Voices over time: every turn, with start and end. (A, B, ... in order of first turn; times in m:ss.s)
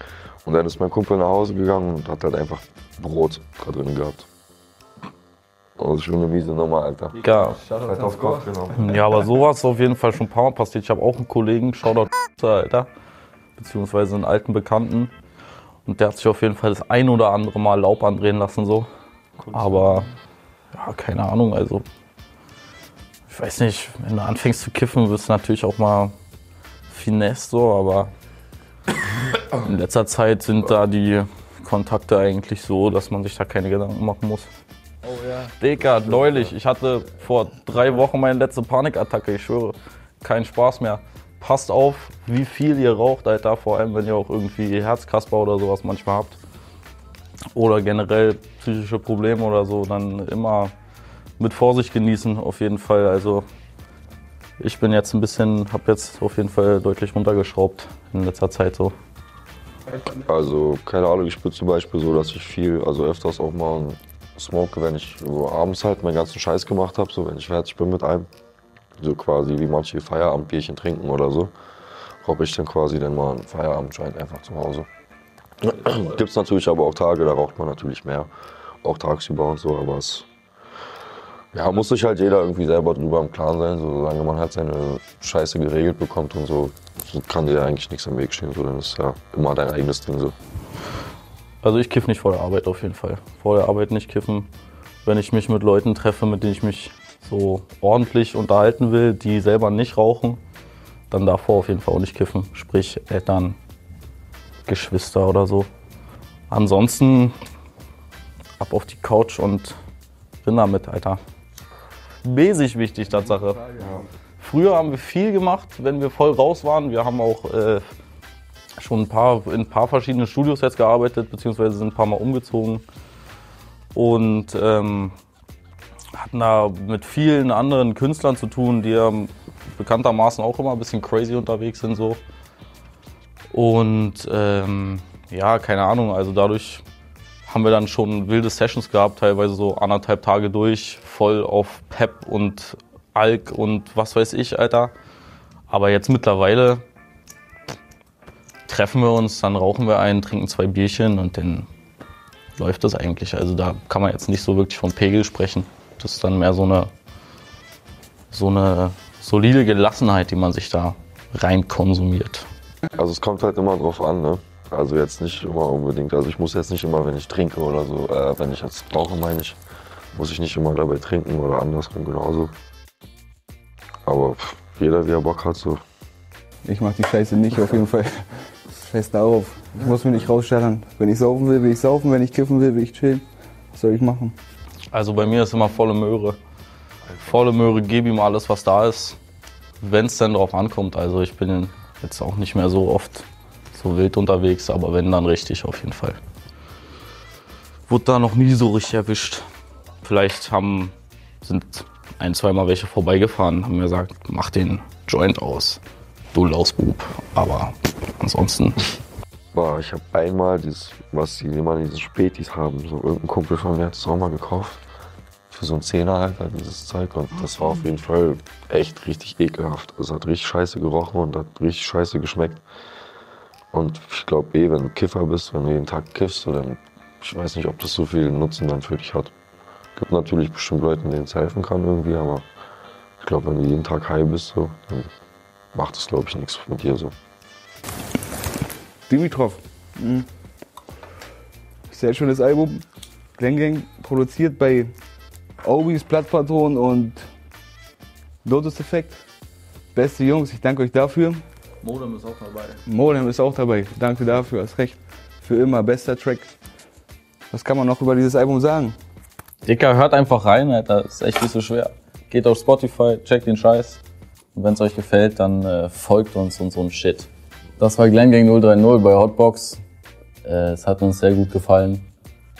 0:00.4-0:04.3 A
0:05.8-0:09.1 A
0:07.2-0:07.7 B
0:07.8-0:08.3 C
0:08.7-0:12.9 B
0:13.6-0:15.1 B
0:15.8-0:18.9 B
0:19.5-0:20.1 B
0:19.6-0:20.0 A
0:20.7-0:21.8 B
0:23.3-0:26.1 B
0:26.9-0:28.1 B
0:29.5-0:34.5 B
0:35.0-0:35.5 C
0:35.6-0:46.4 B
0:35.8-0:36.5 A
0:47.5-0:50.7 B
0:51.4-0:53.4 B
0:54.6-0:59.0 B
1:00.0-1:08.3 A
1:09.0-1:11.5 A
1:12.2-1:14.9 A
1:15.6-1:18.3 A
1:18.8-1:20.3 A
1:21.5-1:30.3 A
1:31.6-1:34.5 B
1:35.0-1:40.4 B
1:41.1-1:43.6 B
1:44.6-1:45.7 B
1:46.5-1:47.4 B
1:48.6-1:49.8 B
1:50.4-1:51.2 B
1:52.2-1:57.9 B
1:53.4-1:53.9 C
1:58.8-2:02.8 B
2:03.9-2:05.1 B
2:06.1-2:12.2 B
2:13.5-2:16.8 B
2:17.4-2:24.9 B
2:25.7-2:26.8 B
2:28.7-2:31.7 B
2:32.6-2:36.9 B
2:38.3-2:42.5 B
2:42.9-2:49.6 A
2:50.1-2:52.5 A
2:54.0-2:55.8 A
2:56.6-3:04.3 C
3:04.9-3:06.4 B
3:07.2-3:09.2 B
3:09.8-3:16.2 B
3:17.9-3:19.5 B
3:20.0-3:25.8 B
3:26.3-3:28.8 B
3:29.5-3:34.8 A
3:35.5-3:42.6 A
3:43.7-3:49.3 A
3:50.0-3:52.4 A
3:53.2-3:55.1 A
3:55.7-3:57.1 A
3:59.1-4:00.3 C
4:01.9-4:02.8 C
4:03.4-4:04.9 C
4:05.6-4:07.2 C
4:08.4-4:09.2 C
4:09.9-4:11.4 C
4:11.8-4:12.8 B
4:12.8-4:16.5 C
4:17.5-4:18.9 C
4:19.6-4:24.0 B
4:24.5-4:29.8 B
4:30.4-4:32.1 B